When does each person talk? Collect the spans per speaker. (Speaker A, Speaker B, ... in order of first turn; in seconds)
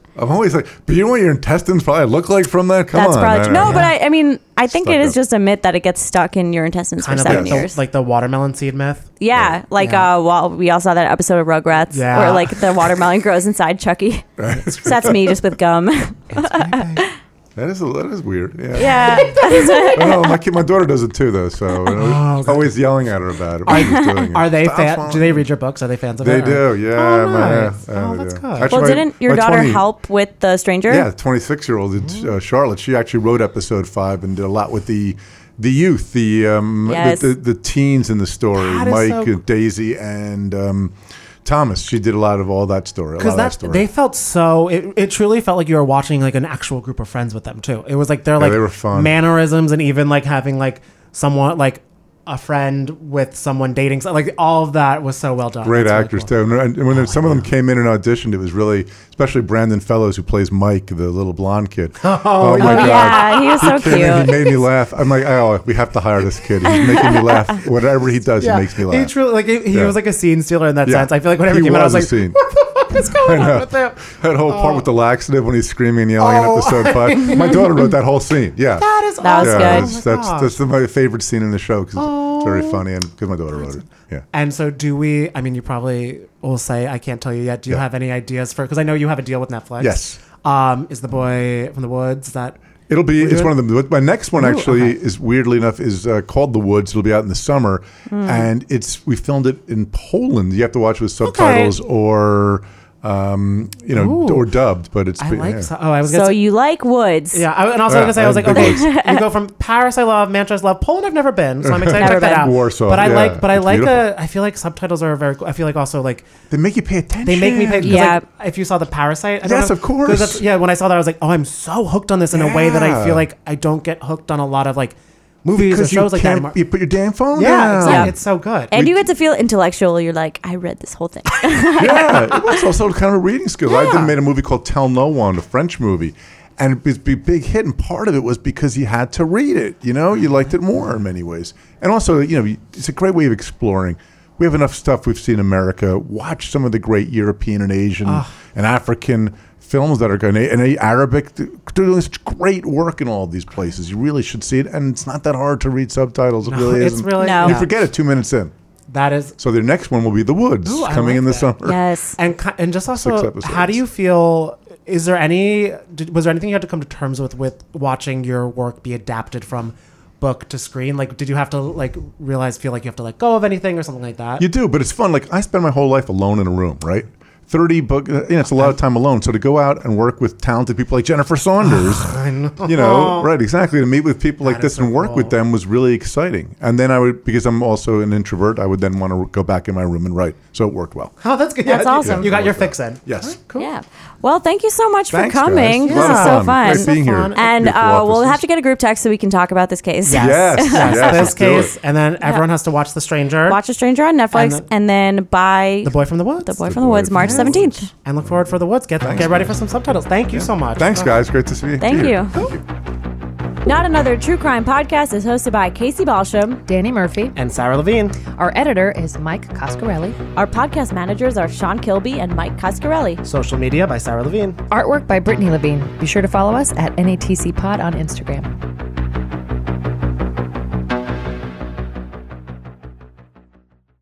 Speaker A: 0.1-3.9, 4.7-5.2, 7.2-7.7, 14.4-15.3, 17.6-25.5, 26.2-29.9, 30.9-43.9, 48.4-49.1, 55.6-69.1, 69.7-70.0, 70.8-72.4, 73.0-84.2, 89.8-90.2, 92.9-105.7, 107.9-108.9, 111.6-114.1, 116.5-118.2, 119.4-120.4, 122.3-123.3, 125.5-128.2, 128.7-129.0, 131.8-158.5, 159.4-161.8, 162.9-163.8, 174.4-191.2, 191.9-193.4, 195.1-198.4, 200.1-201.7, 206.6-207.9, 209.0-212.6
Speaker B: 2.9-7.8, 9.2-17.0, 18.8-20.1, 23.7-24.3, 28.7-31.1, 36.9-37.3, 62.6-64.3, 79.2-79.9, 98.1-98.5, 106.1-107.4, 108.4-109.2, 111.9-112.5, 117.8-118.2, 127.8-128.1, 128.7-132.4, 157.2-157.6, 161.6-162.2, 191.6-192.3, 193.6-201.4, 203.4-207.9, 211.8-212.4, 213.6-216.6, 220.3-223.2
Speaker C: 3.6-3.9, 7.0-9.2, 9.8-10.1, 11.9-12.7, 16.3-17.1, 18.9-20.0, 21.9-22.8, 23.6-29.0, 38.5-39.4, 43.2-57.5, 62.0-63.7, 68.4-74.8, 76.2-77.9, 78.8-80.6, 82.0-82.8, 84.3-92.6, 93.2-93.5, 94.4-94.9, 101.2-101.7, 103.9-104.5, 105.2-106.5, 107.3-116.3, 117.2-126.6, 127.3-128.7, 133.8-134.1, 148.0-148.3, 156.4-157.7, 158.9-159.3, 160.6-161.5, 162.2-174.4, 181.6-183.3, 184.4-185.3, 191.2-193.7, 195.8-197.5, 200.1-203.6, 204.3-204.7, 205.8-206.6, 207.1-211.1, 217.3-218.2, 223.2-224.6
Speaker D: 216.7-217.3, 218.3-220.2, 224.7-228.5